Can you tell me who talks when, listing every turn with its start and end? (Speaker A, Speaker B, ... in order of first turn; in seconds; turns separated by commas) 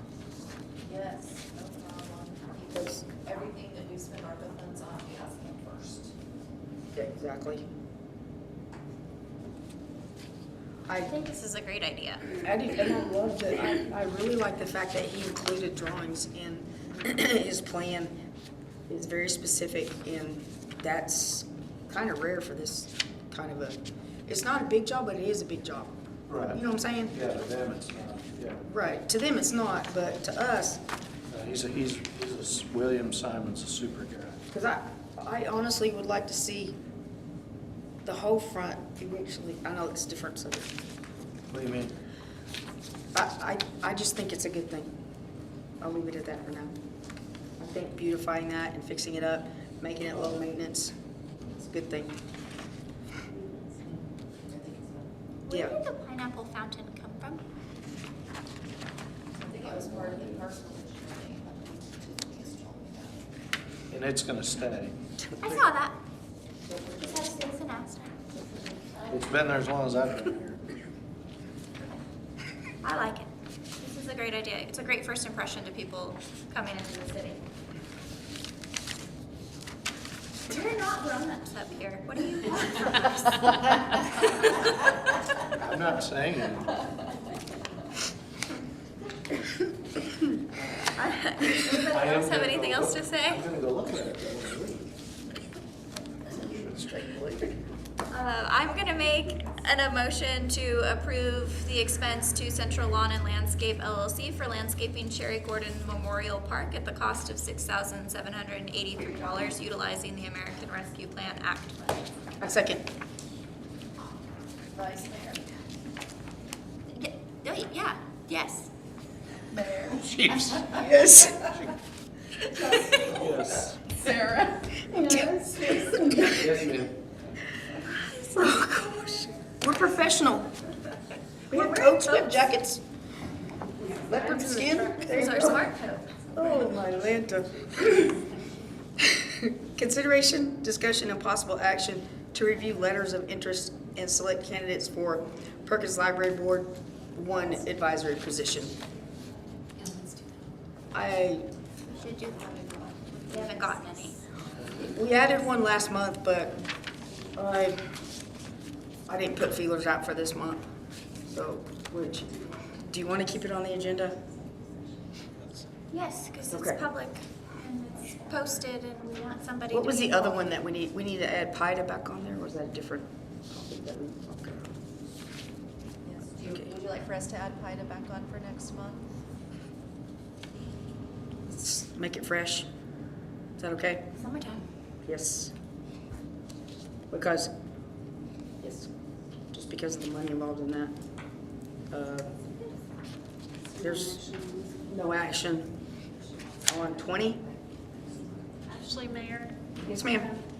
Speaker A: 0.8-6.1, Speaker B: 2.7-3.0, Speaker B: 6.9-7.6, Speaker B: 10.9-11.2, Speaker C: 11.1-12.4, Speaker B: 12.4-18.2, Speaker B: 18.9-27.2, Speaker D: 26.3-26.6, Speaker D: 27.1-28.6, Speaker B: 28.7-30.8, Speaker D: 31.3-34.4, Speaker B: 34.5-36.8, Speaker B: 38.0-40.7, Speaker D: 41.5-41.9, Speaker B: 43.1-44.9, Speaker B: 45.8-46.8, Speaker B: 47.6-50.9, Speaker B: 51.6-52.2, Speaker E: 53.4-53.7, Speaker A: 54.5-55.1, Speaker C: 55.5-57.4, Speaker B: 55.5-55.8, Speaker A: 59.4-63.3, Speaker D: 59.6-60.4, Speaker D: 63.9-65.0, Speaker C: 65.4-65.9, Speaker C: 66.9-68.2, Speaker D: 69.1-70.7, Speaker C: 72.8-77.4, Speaker C: 80.5-84.5, Speaker D: 85.6-86.7, Speaker C: 90.9-93.4, Speaker D: 91.8-94.9, Speaker B: 96.3-97.5, Speaker C: 98.1-112.1, Speaker B: 112.4-112.8, Speaker A: 114.7-115.7, Speaker C: 116.9-118.7, Speaker A: 119.5-120.0, Speaker D: 119.9-120.8, Speaker B: 120.7-121.5, Speaker A: 122.4-126.2, Speaker D: 123.1-123.8, Speaker B: 124.9-125.3, Speaker D: 126.1-126.9, Speaker C: 128.0-128.7, Speaker B: 128.3-130.5, Speaker B: 131.5-132.8, Speaker C: 131.5-132.5, Speaker B: 134.0-135.7, Speaker C: 134.9-136.3, Speaker B: 136.3-138.2, Speaker B: 139.0-148.8, Speaker C: 149.8-150.1, Speaker B: 150.9-151.5, Speaker C: 151.9-154.2, Speaker B: 154.8-156.6, Speaker B: 157.3-157.8, Speaker B: 159.1-160.6, Speaker B: 161.2-164.2, Speaker C: 165.9-170.5, Speaker B: 166.5-166.9, Speaker B: 169.7-174.7, Speaker A: 176.0-179.0, Speaker B: 176.4-176.7, Speaker B: 181.5-182.7, Speaker B: 183.6-184.1, Speaker C: 184.2-184.6, Speaker B: 185.0-185.5, Speaker B: 187.1-187.5, Speaker B: 188.6-188.9, Speaker B: 189.5-190.9, Speaker B: 191.9-192.4, Speaker B: 193.8-194.2, Speaker E: 193.8-194.8, Speaker B: 194.8-195.7, Speaker B: 196.7-197.4, Speaker A: 197.2-197.5, Speaker E: 198.7-200.4, Speaker B: 199.8-200.3